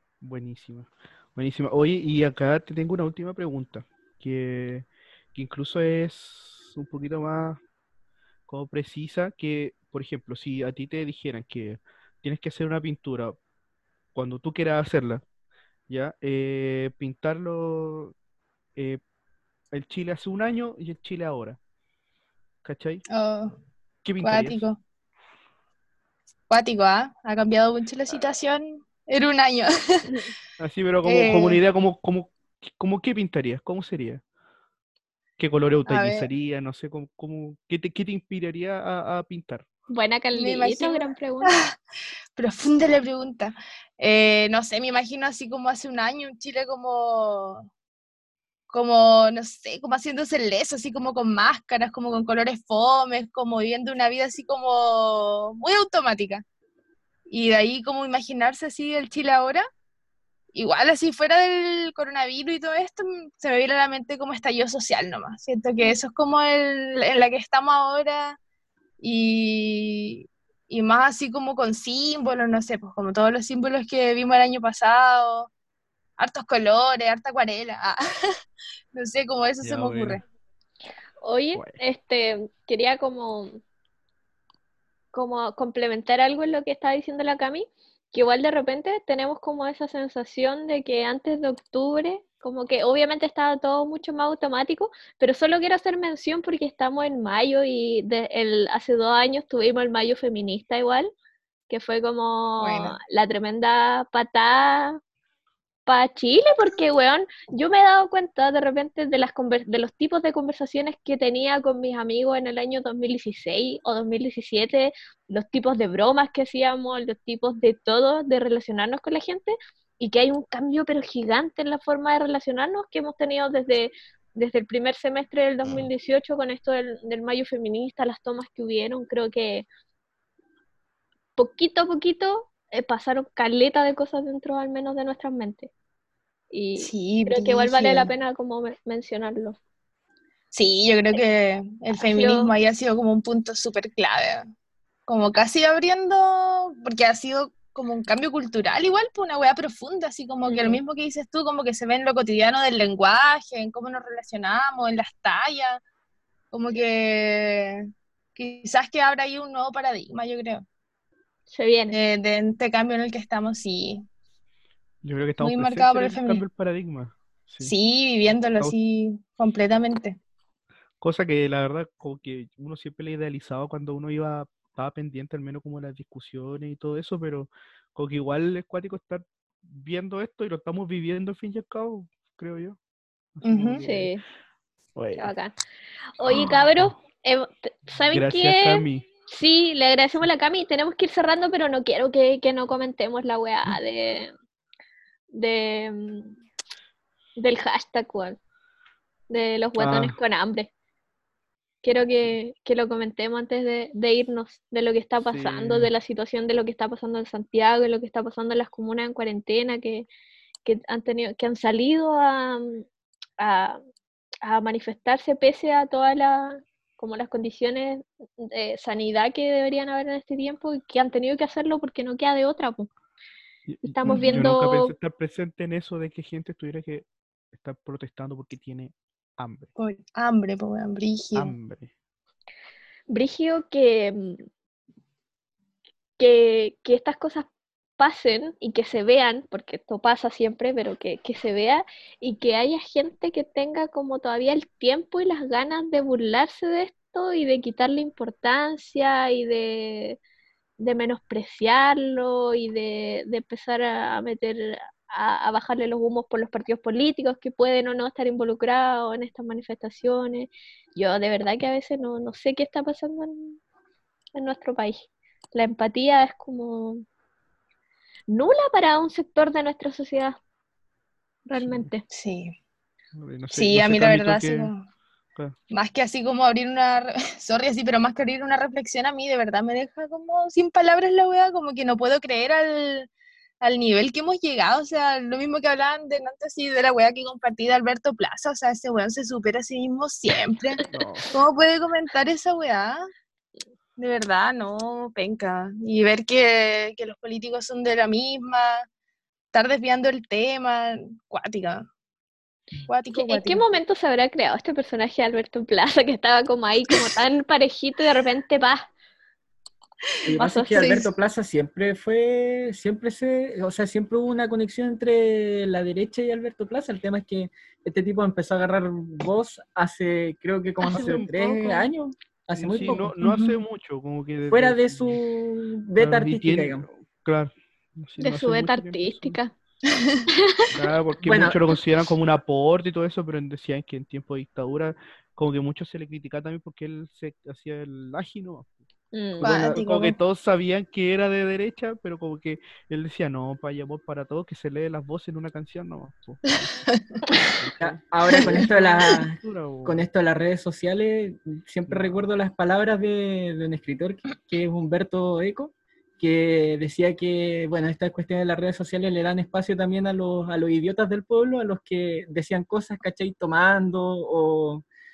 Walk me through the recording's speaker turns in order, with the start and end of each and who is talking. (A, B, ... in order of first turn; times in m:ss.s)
0:00.2-0:07.6 A
0:08.5-0:13.4 A
0:14.1-0:15.2 A
0:15.9-0:18.1 A
0:18.8-0:19.0 A
0:19.7-0:21.6 A
0:22.6-0:23.0 A
0:23.1-0:23.6 B
0:24.0-0:24.6 A
0:24.2-0:24.8 B
0:26.5-0:30.2 B
0:30.6-0:34.2 A
0:31.0-0:31.6 B
0:35.4-0:39.6 A
0:35.9-0:36.3 B
0:39.9-0:41.5 C
0:40.3-0:41.8 B
0:42.3-0:47.7 B
0:48.7-0:56.4 B
0:57.3-0:59.6 B
1:00.5-1:08.4 B
1:09.0-1:15.5 B
1:16.2-1:18.0 B
1:18.9-1:20.2 B
1:19.6-1:20.2 A
1:21.2-1:23.6 C
1:21.5-1:21.8 A
1:25.1-1:41.1 C
1:41.7-1:45.0 C
1:42.6-1:43.0 B
1:45.9-2:09.6 C
2:11.4-2:15.7 C
2:16.5-2:19.6 C
2:16.8-2:18.1 B
2:20.5-2:24.4 B
2:21.9-2:22.5 C
2:25.1-2:35.8 B
2:30.5-2:30.8 C
2:36.5-2:40.6 B
2:41.5-2:42.0 C
2:41.9-2:44.0 B
2:45.0-2:47.7 A
2:45.4-2:46.4 B
2:47.6-2:50.2 B
2:51.0-3:02.8 A
3:03.4-3:04.1 A
3:03.4-3:03.8 B
3:03.8-3:04.2 C
3:05.0-3:05.3 A
3:05.2-3:05.5 C
3:06.2-3:14.3 C
3:06.2-3:06.9 A
3:08.1-3:09.0 A
3:15.3-3:16.4 C
3:17.4-3:18.4 C
3:19.3-3:20.7 C
3:19.8-3:20.1 A
3:21.8-3:30.1 C
3:25.2-3:25.9 A
3:30.6-3:32.8 C
3:33.4-3:33.8 C
3:34.4-3:42.9 C
3:43.7-3:49.7 A
3:43.8-3:44.9 C
3:44.0-3:44.4 B
3:49.8-3:51.5 B
3:51.3-3:51.9 A
3:53.1-3:54.4 C
3:56.2-3:57.5 C
3:58.0-4:10.2 C
4:10.8-4:23.6 C
4:24.4-4:27.0 C
4:28.3-4:30.4 C
4:31.4-4:32.0 C
4:31.6-4:31.9 A
4:32.1-4:32.5 B
4:33.2-4:34.7 A
4:33.5-4:34.8 B
4:35.7-4:43.1 B
4:43.6-4:50.8 B
4:50.9-4:51.3 A
4:51.3-4:53.1 B
4:54.0-4:58.9 B
4:59.5-5:01.9 B
5:02.9-5:03.6 B
5:03.1-5:08.9 C
5:10.2-5:23.1 D
5:10.4-5:11.0 C
5:10.8-5:11.0 B
5:20.9-5:21.3 C
5:20.9-5:21.8 A
5:22.6-5:25.2 A
5:22.9-5:23.5 B
5:24.5-5:26.9 D
5:26.0-5:29.4 A
5:28.2-5:29.5 C
5:29.9-5:30.3 B
5:30.3-5:30.7 C
5:30.7-5:38.7 A
5:31.2-5:31.6 D
5:39.1-5:39.6 C
5:39.4-5:50.0 A
5:39.4-5:40.2 B
5:47.0-5:47.2 B
5:47.8-6:04.8 D
5:48.3-5:48.6 B
5:51.9-5:52.3 A